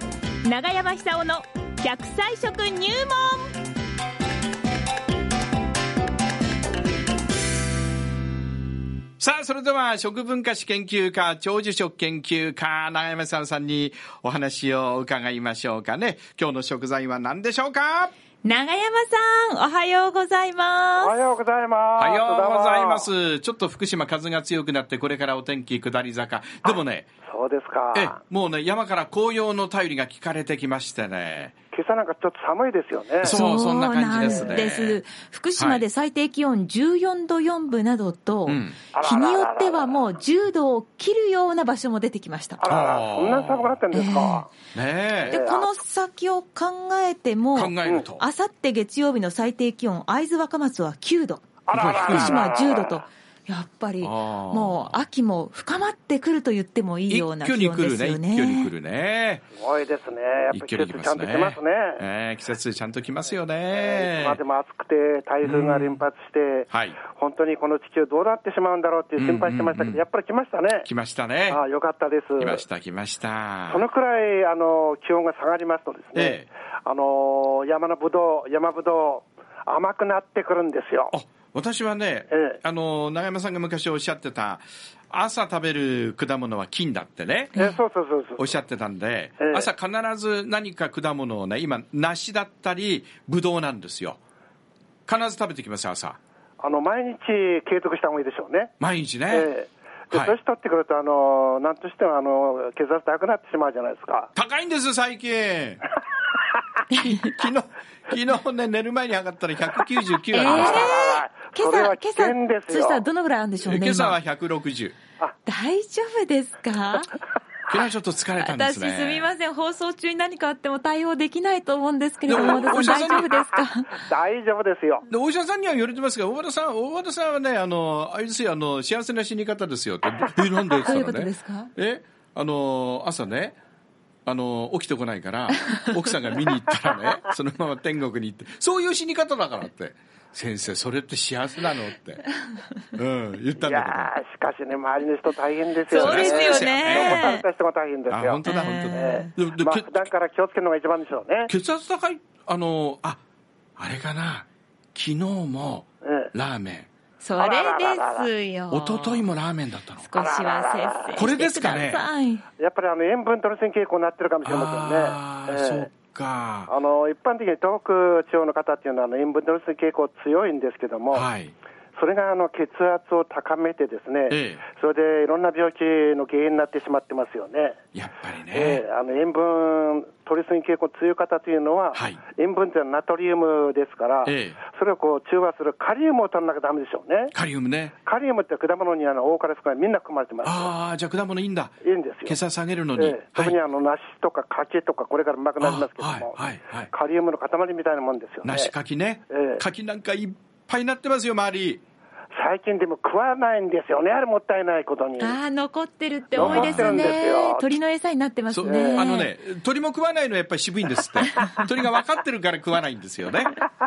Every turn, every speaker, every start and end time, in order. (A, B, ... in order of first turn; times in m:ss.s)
0:00.4-0:03.5 A
0:09.2-0:18.1 B
0:18.4-0:21.1 A
0:21.0-0:23.1 C
0:22.0-0:27.1 B
0:27.2-0:28.2 C
0:27.9-0:31.5 B
0:31.7-0:33.4 C
0:33.2-0:35.0 B
0:33.2-0:42.6 A
0:34.2-0:34.6 C
0:35.6-0:35.8 B
0:38.4-0:38.8 B
0:38.9-0:40.0 C
0:42.6-0:44.5 C
0:42.6-0:43.8 B
0:43.9-0:44.4 A
0:44.7-0:45.4 B
0:45.3-0:45.7 C
0:45.3-0:51.4 A
0:47.5-0:48.2 B
0:51.6-0:53.0 C
0:51.7-0:52.4 B
0:52.0-0:58.7 A
0:54.0-0:55.0 B
0:57.1-0:59.4 B
0:59.6-1:02.0 C
1:00.5-1:04.4 B
1:03.7-1:10.9 C
1:05.4-1:06.0 B
1:06.7-1:07.0 B
1:09.2-1:10.0 B
1:10.8-1:11.6 B
1:11.5-1:12.6 C
1:12.4-1:13.8 B
1:13.7-1:21.1 C
1:16.1-1:16.5 B
1:21.1-1:27.6 B
1:22.3-1:22.6 C
1:27.6-1:28.5 C
1:28.4-1:34.2 B
1:29.4-1:29.6 C
1:35.1-1:36.2 B
1:36.6-1:38.7 C
1:38.8-1:39.5 B
1:39.3-1:44.3 C
1:40.1-1:40.4 B
1:44.3-1:45.8 B
1:46.9-1:50.9 B
1:50.3-1:54.2 A
1:50.4-1:53.0 C
1:53.6-1:55.0 B
1:55.4-1:57.1 A
1:57.7-1:59.3 B
1:58.4-2:04.0 A
2:02.3-2:03.3 B
2:02.3-2:03.1 C
2:03.9-2:05.1 C
2:05.1-2:13.6 B
2:10.7-2:11.7 A
2:14.2-2:22.2 B
2:23.0-2:24.1 B
2:23.6-2:31.5 C
2:25.9-2:27.3 B
2:25.9-2:27.4 A
2:28.1-2:30.1 B
2:28.4-2:29.3 A
2:31.5-2:33.2 B
2:33.8-2:36.9 B
2:36.0-2:36.3 C
2:37.2-2:39.2 A
2:37.4-2:38.3 C
2:38.7-2:40.1 B
2:40.0-2:42.4 A
2:40.2-2:41.1 C
2:41.1-2:42.1 B
2:42.6-2:45.9 C
2:44.4-2:46.7 B
2:46.7-2:51.3 C
2:51.1-2:51.5 B
2:51.9-2:57.8 C
2:54.3-2:54.6 B
2:57.9-2:58.8 B
2:58.5-3:07.3 C
3:01.9-3:02.2 B
3:04.2-3:04.6 B
3:07.3-3:07.9 B
3:08.0-3:10.7 C
3:10.4-3:11.7 B
3:11.8-3:12.4 C
3:12.2-3:13.6 B
3:12.9-3:18.7 C
3:15.6-3:16.9 B
3:18.4-3:21.8 B
3:19.3-3:19.6 C
3:22.3-3:25.4 C
3:25.2-3:29.3 A
3:26.3-3:27.0 B
3:26.4-3:27.7 C
3:28.5-3:33.6 B
3:28.6-3:29.0 C